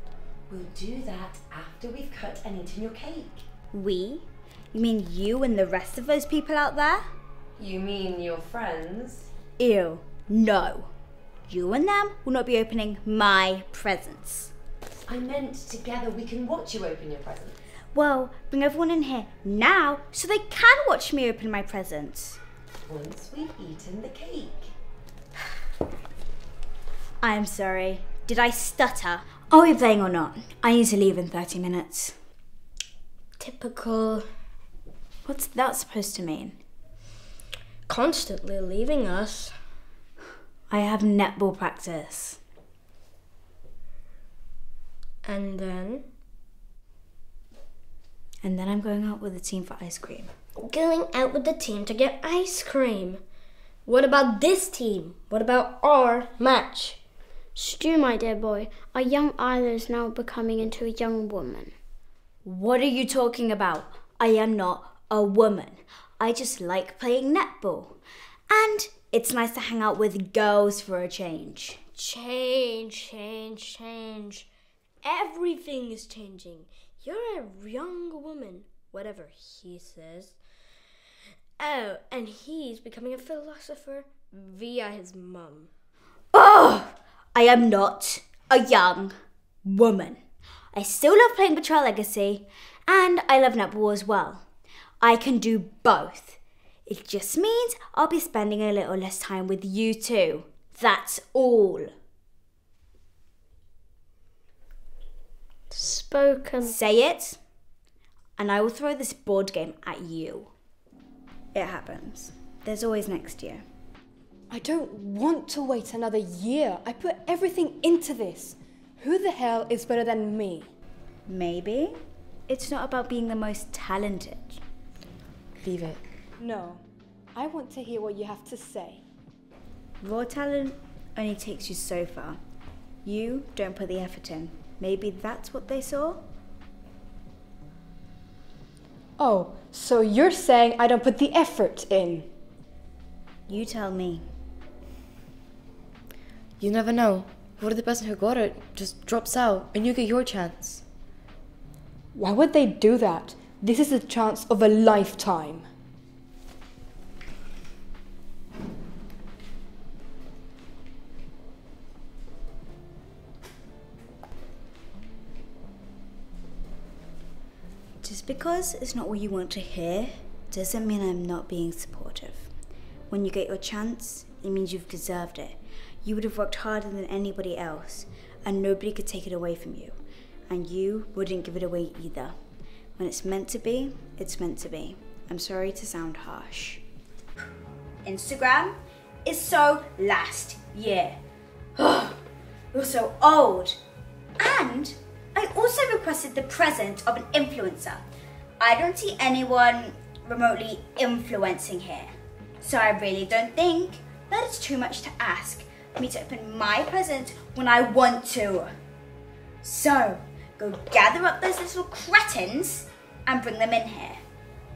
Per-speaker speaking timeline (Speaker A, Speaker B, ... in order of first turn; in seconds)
Speaker A: 0.5-3.4, 7.6-9.3, 15.0-17.6, 22.9-24.7
Speaker B: 3.7-7.0, 9.6-10.9, 11.5-14.5, 17.9-22.4, 27.2-32.1, 35.2-36.6, 40.7-42.4, 48.4-50.3, 62.4-68.0, 68.5-71.8, 86.3-89.1, 89.6-90.2, 90.7-94.4, 95.0-101.9, 106.6-107.4, 108.4-110.5, 111.5-113.6, 121.3-122.0, 122.5-124.6, 130.0-132.4, 133.0-136.2, 143.5-144.2, 168.0-172.5, 173.1-179.9, 180.5-182.3, 183.0-186.8, 188.0-191.2, 191.8-192.2, 192.7-193.8, 194.4-198.0, 198.6-202.1, 202.6-208.7, 209.6-214.2
Speaker C: 33.4-34.2, 37.9-39.5, 45.2-46.0, 50.6-53.2, 53.9-57.0, 71.9-74.5, 75.0-80.4, 81.6-85.7
Speaker D: 57.5-61.7, 105.7-106.8
Speaker E: 114.5-120.7, 126.4-129.0, 139.2-142.3, 152.1-155.7
Speaker F: 125.6-126.0, 146.6-150.8